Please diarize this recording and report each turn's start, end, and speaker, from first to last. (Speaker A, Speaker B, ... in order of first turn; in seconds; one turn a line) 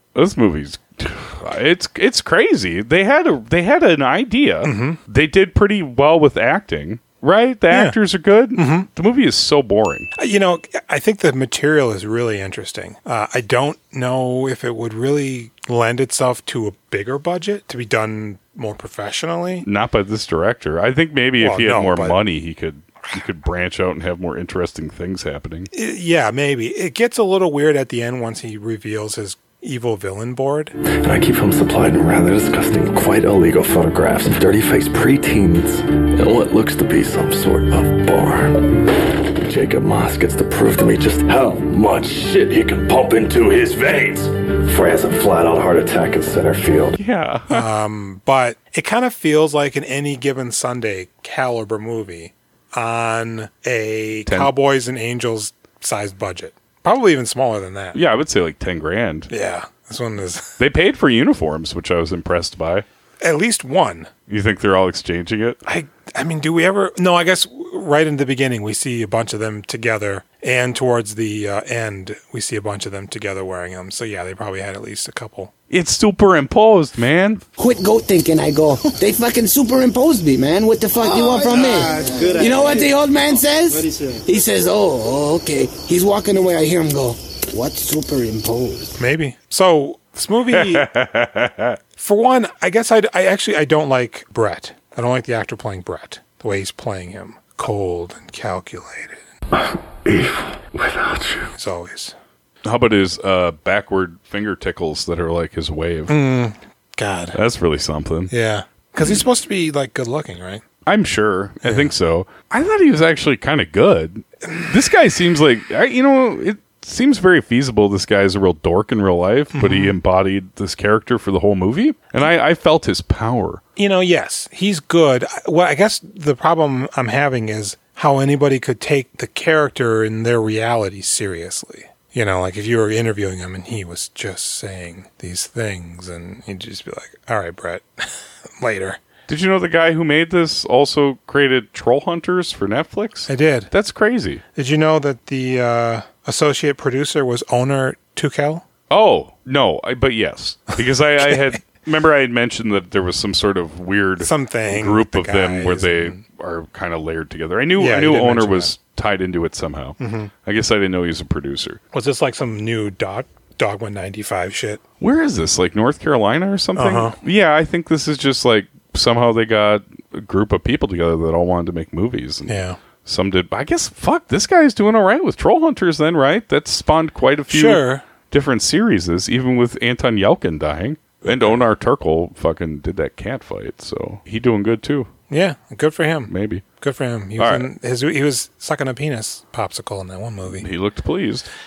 Speaker A: 0.1-10.1
Speaker B: 4.6-5.0
Speaker B: 7.7-8.0
Speaker B: 8.5-8.9
Speaker B: 10.2-19.6
Speaker A: 19.6-25.7
Speaker B: 21.4-22.2
Speaker B: 25.7-30.7
Speaker C: 30.8-46.9
Speaker A: 47.0-47.6
Speaker B: 47.5-58.0
Speaker A: 54.3-54.5
Speaker A: 57.9-59.3
Speaker B: 59.3-60.5
Speaker A: 60.6-62.8
Speaker B: 63.2-64.1
Speaker A: 64.3-65.6
Speaker B: 65.6-75.5
Speaker A: 75.7-77.4
Speaker D: 77.5-89.0
Speaker B: 89.0-90.9
Speaker A: 90.5-91.8
Speaker B: 92.0-99.2
Speaker C: 99.5-101.5
Speaker B: 101.6-102.2
Speaker A: 102.6-106.2
Speaker B: 106.1-107.4
Speaker A: 107.3-108.3
Speaker B: 108.3-110.6
Speaker A: 110.8-123.6
Speaker B: 111.6-111.9
Speaker B: 119.5-120.0
Speaker B: 123.8-138.1
Speaker B: 138.6-139.0
Speaker A: 139.3-144.4
Speaker B: 143.3-143.7
Speaker B: 144.5-148.6
Speaker A: 148.9-161.8
Speaker B: 154.2-156.2
Speaker B: 157.8-158.7
Speaker B: 160.0-160.3
Speaker B: 161.9-164.8
Speaker A: 165.0-185.1
Speaker B: 166.8-167.2
Speaker B: 172.5-172.8
Speaker B: 177.5-178.0
Speaker B: 181.3-181.6
Speaker B: 185.3-190.7
Speaker A: 186.3-186.6
Speaker A: 187.4-187.7
Speaker A: 190.5-191.5